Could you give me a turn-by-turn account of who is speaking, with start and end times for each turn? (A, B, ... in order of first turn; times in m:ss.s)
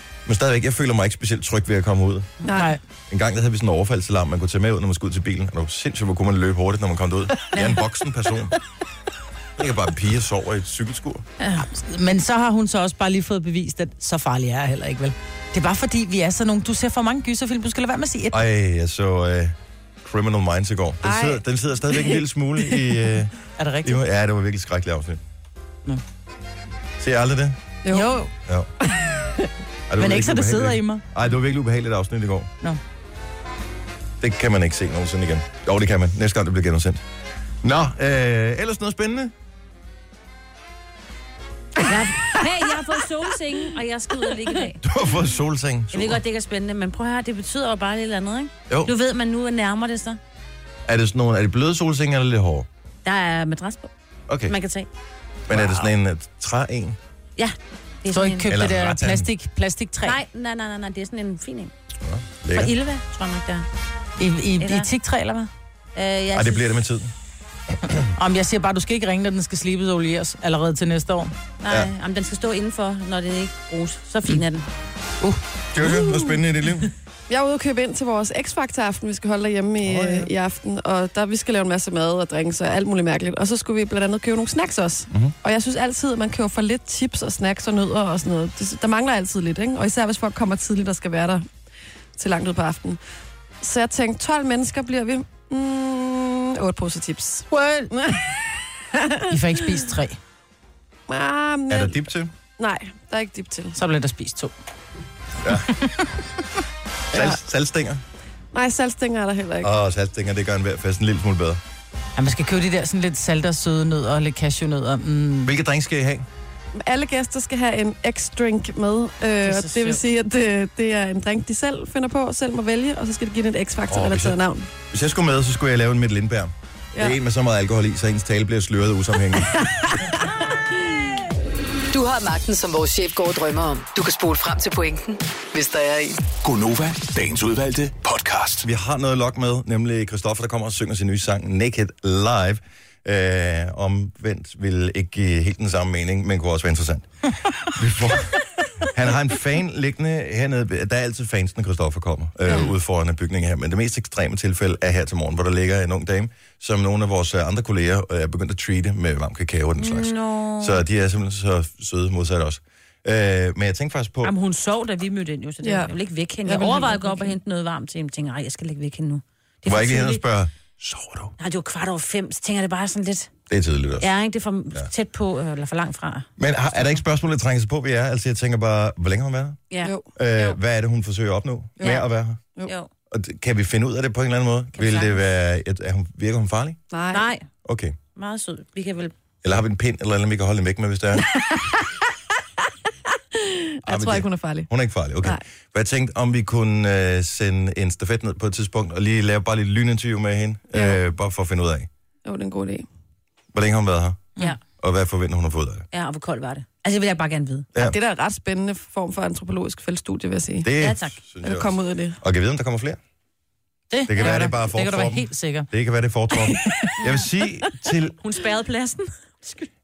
0:00.3-0:02.3 A
0:02.4-0:02.8 B
0:02.5-0:02.8 C
0:03.1-0:08.6 A
0:09.6-0:11.2 A
0:11.4-0:18.4 C
0:18.3-0:23.3 A
0:21.0-0:22.2 B
0:23.6-0:24.0 C
0:23.8-0:25.2 A
0:27.0-0:27.6 A
0:27.8-0:28.2 B
0:27.9-0:28.3 C
0:28.8-0:29.5 B
0:29.9-0:32.5 A
0:30.0-0:31.0 C
0:34.2-0:37.0 A
0:37.6-0:39.3 A
0:41.8-0:44.8 D
0:44.8-0:46.2 A
0:45.9-0:50.2 D
0:50.9-0:52.7 A
0:53.0-0:53.9 D
0:54.3-0:54.5 A
0:54.5-0:54.9 D
0:55.5-0:57.0 A
0:55.5-0:55.9 D
0:57.4-0:58.5 D
0:58.1-1:00.2 C
0:58.5-0:59.3 A
1:00.0-1:01.7 D
1:02.0-1:02.7 A
1:02.5-1:03.7 D
1:04.2-1:05.5 C
1:04.6-1:04.9 D
1:05.9-1:06.8 D
1:06.3-1:07.1 A
1:08.2-1:11.3 C
1:11.6-1:14.7 D
1:15.7-1:16.9 A
1:15.8-1:16.4 B
1:17.3-1:31.5 B
1:19.8-1:20.3 A
1:32.2-1:33.0 B
1:33.6-1:39.9 B
1:37.6-1:37.9 C
1:39.3-1:40.2 C
1:41.1-1:42.1 B
1:41.7-1:42.3 A
1:42.6-1:43.8 B
1:43.8-1:44.5 C
1:45.4-1:45.7 A
1:47.1-1:48.0 A
1:47.1-1:47.4 B
1:48.5-1:49.7 B
1:49.6-1:51.6 A
1:52.2-1:55.5 C
1:55.4-1:56.3 A
1:56.8-2:04.7 B
1:59.4-2:00.0 C
2:03.9-2:04.4 A
2:04.9-2:09.5 A
2:11.9-2:16.2 E
2:16.4-2:18.7 F
2:18.6-2:27.1 A
2:27.7-2:44.3 A
2:39.8-2:40.8 D
2:44.2-2:50.2 D
2:45.6-2:45.9 B
2:46.4-2:47.4 B
2:49.7-2:51.4 A
2:51.4-2:53.3 D
2:53.5-2:54.1 A
2:54.0-2:56.3 D
2:56.4-2:59.6 A
2:59.7-3:00.6 D
3:00.2-3:02.4 A
3:01.8-3:02.7 B
3:03.1-3:06.8 A
3:04.8-3:05.2 D
3:06.9-3:07.3 B
3:07.1-3:07.5 D
3:07.6-3:07.9 A
3:08.2-3:09.1 D
3:09.4-3:11.3 A
3:11.3-3:11.9 B
3:13.1-3:14.7 B
3:13.9-3:21.9 A
3:20.7-3:21.0 B
3:22.2-3:22.9 B
3:23.5-3:24.2 A
3:24.8-3:25.9 A
3:25.9-3:27.7 D
3:27.8-3:30.7 B
3:30.6-3:33.0 A
3:30.8-3:31.2 D
3:31.4-3:32.2 B
3:33.9-3:35.7 C
3:34.1-3:38.2 A
3:38.2-3:39.7 D